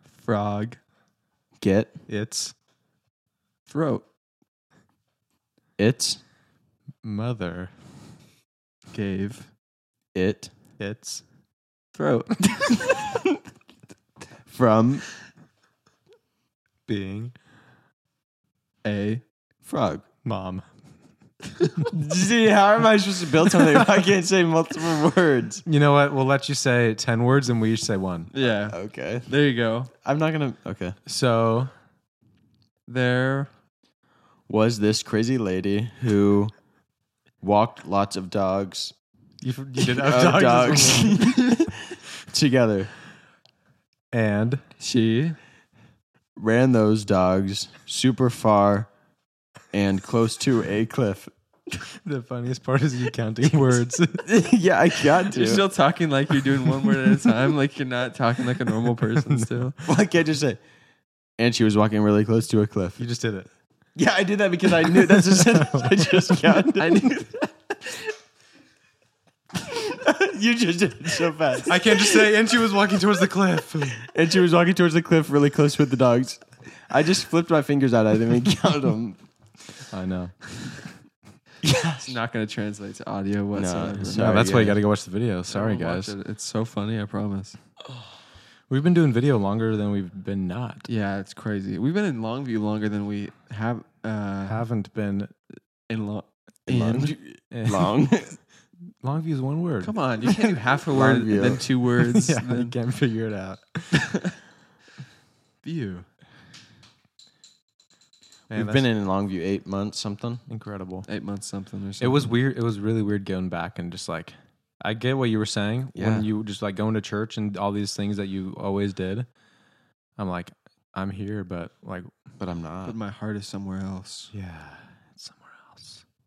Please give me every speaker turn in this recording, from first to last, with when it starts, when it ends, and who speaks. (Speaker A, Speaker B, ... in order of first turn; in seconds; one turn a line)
Speaker A: 0.2-0.8
Speaker B: 1.6-1.9
Speaker C: 2.1-2.5
Speaker A: 3.7-4.0
Speaker B: 5.8-6.2
Speaker C: 7.0-7.7
Speaker A: 8.9-9.5
Speaker B: 10.2-10.5
Speaker C: 10.8-11.2
Speaker A: 11.9-13.1
Speaker B: 14.5-15.1
Speaker C: 16.9-17.4
Speaker A: 18.8-19.2
Speaker B: 19.7-20.1
Speaker C: 20.2-20.7
Speaker B: 21.9-25.6
Speaker C: 25.7-28.3
Speaker A: 28.3-29.9
Speaker B: 28.4-29.3
Speaker B: 29.9-31.0
Speaker C: 31.1-31.7
Speaker A: 32.9-33.5
Speaker B: 34.5-36.6
Speaker B: 37.4-39.0
Speaker C: 39.4-41.3
Speaker B: 39.8-42.9
Speaker C: 44.1-44.6
Speaker A: 44.8-45.4
Speaker B: 46.4-48.9
Speaker B: 49.7-51.3
Speaker C: 52.0-54.3
Speaker B: 54.2-55.7
Speaker A: 55.3-59.8
Speaker C: 59.3-59.7
Speaker B: 59.8-60.6
Speaker B: 61.4-63.0
Speaker C: 63.0-63.5
Speaker B: 64.0-67.1
Speaker C: 64.8-67.1
Speaker A: 66.8-67.5
Speaker B: 69.6-72.3
Speaker C: 71.7-74.1
Speaker B: 74.0-79.2
Speaker C: 79.9-80.6
Speaker B: 81.6-82.2
Speaker A: 82.0-84.5
Speaker B: 83.5-84.8
Speaker C: 84.0-86.1
Speaker A: 85.5-87.6
Speaker C: 88.7-90.9
Speaker A: 90.9-94.6
Speaker C: 94.5-95.3
Speaker A: 95.9-97.2
Speaker B: 96.7-98.4
Speaker C: 97.5-98.5
Speaker C: 99.0-100.0
Speaker A: 99.8-102.8
Speaker B: 100.9-101.8
Speaker C: 102.0-104.2
Speaker A: 105.6-106.1
Speaker C: 108.5-108.9
Speaker B: 108.5-110.5
Speaker C: 110.5-111.1
Speaker A: 111.1-112.3
Speaker C: 112.0-119.3
Speaker B: 116.0-116.3
Speaker C: 120.2-122.1
Speaker B: 122.4-123.0
Speaker A: 122.8-124.3
Speaker C: 124.3-126.0